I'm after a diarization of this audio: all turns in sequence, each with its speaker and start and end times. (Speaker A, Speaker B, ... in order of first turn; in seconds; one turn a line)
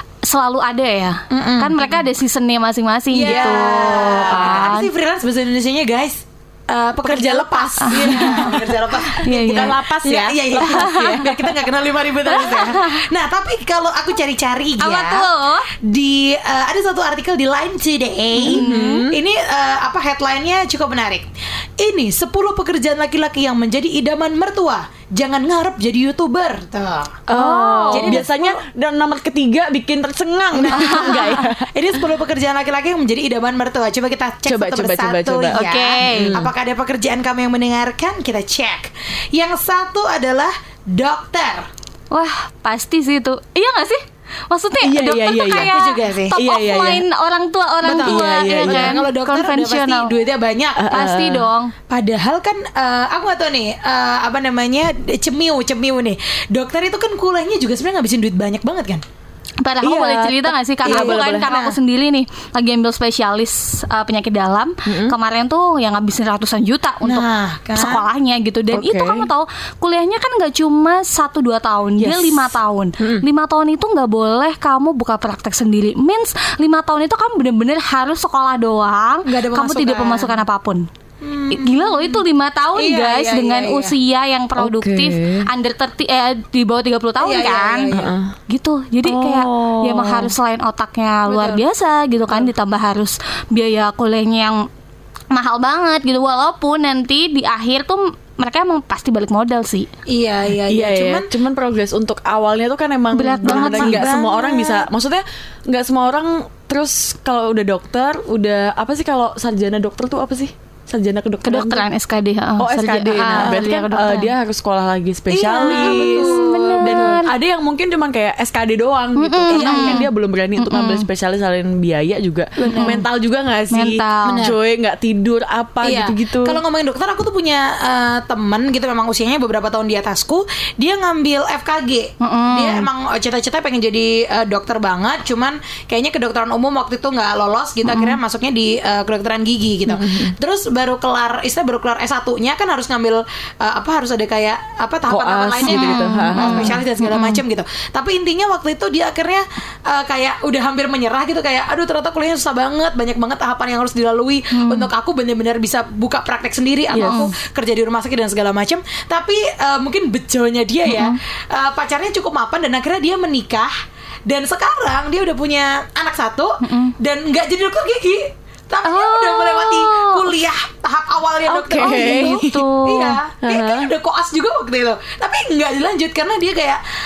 Speaker A: 0.2-4.9
Speaker B: 1.3-1.8
Speaker B: 3.1-15.3
Speaker C: 3.2-4.7
Speaker C: 7.0-11.7
Speaker A: 7.8-8.6
Speaker A: 9.2-9.8
Speaker A: 10.6-11.3
Speaker A: 12.3-13.0
Speaker A: 14.8-15.7
Speaker B: 15.8-27.2
Speaker C: 18.4-19.2
Speaker A: 18.4-19.1
Speaker C: 27.3-32.0
Speaker A: 27.3-28.2
Speaker B: 27.9-28.6
Speaker B: 30.5-41.7
Speaker A: 30.7-31.5
Speaker C: 34.5-36.5
Speaker A: 35.5-36.4
Speaker A: 42.1-50.1
Speaker C: 44.8-45.7
Speaker B: 45.6-46.4
Speaker C: 46.4-47.0
Speaker B: 47.8-51.0
Speaker C: 48.0-49.0
Speaker C: 50.8-51.5
Speaker A: 50.9-51.7
Speaker B: 51.9-59.0
Speaker A: 59.6-80.9
Speaker C: 59.8-61.5
Speaker B: 60.9-61.7
Speaker C: 64.9-65.2
Speaker B: 67.0-68.1
Speaker C: 68.7-69.3
Speaker C: 72.0-73.3
Speaker B: 79.3-80.4
Speaker B: 81.2-82.2
Speaker A: 81.5-87.9
Speaker B: 82.8-84.0
Speaker C: 84.6-85.5
Speaker B: 87.2-88.2
Speaker C: 87.9-88.3
Speaker A: 88.5-94.7
Speaker C: 89.0-90.3
Speaker B: 91.3-91.6
Speaker A: 95.3-99.9
Speaker B: 100.1-101.3
Speaker C: 100.7-111.8
Speaker A: 103.1-104.2
Speaker B: 103.5-104.9
Speaker A: 111.4-114.3
Speaker C: 112.6-126.6
Speaker B: 113.3-113.6
Speaker B: 115.3-117.2
Speaker A: 115.5-117.3
Speaker A: 119.2-121.1
Speaker B: 119.5-120.1
Speaker B: 122.6-123.0
Speaker A: 122.6-123.0
Speaker A: 123.7-124.5
Speaker B: 124.3-124.6
Speaker B: 125.8-163.7
Speaker A: 132.2-132.9
Speaker A: 137.8-138.2
Speaker C: 139.9-140.3
Speaker C: 145.1-146.8
Speaker A: 145.6-147.4
Speaker A: 154.5-154.9
Speaker C: 156.9-157.3
Speaker A: 157.0-157.3
Speaker A: 160.9-161.2
Speaker B: 164.3-176.8
Speaker A: 166.6-166.9
Speaker A: 168.8-170.3
Speaker C: 171.5-172.6
Speaker A: 171.7-173.2
Speaker C: 173.4-173.9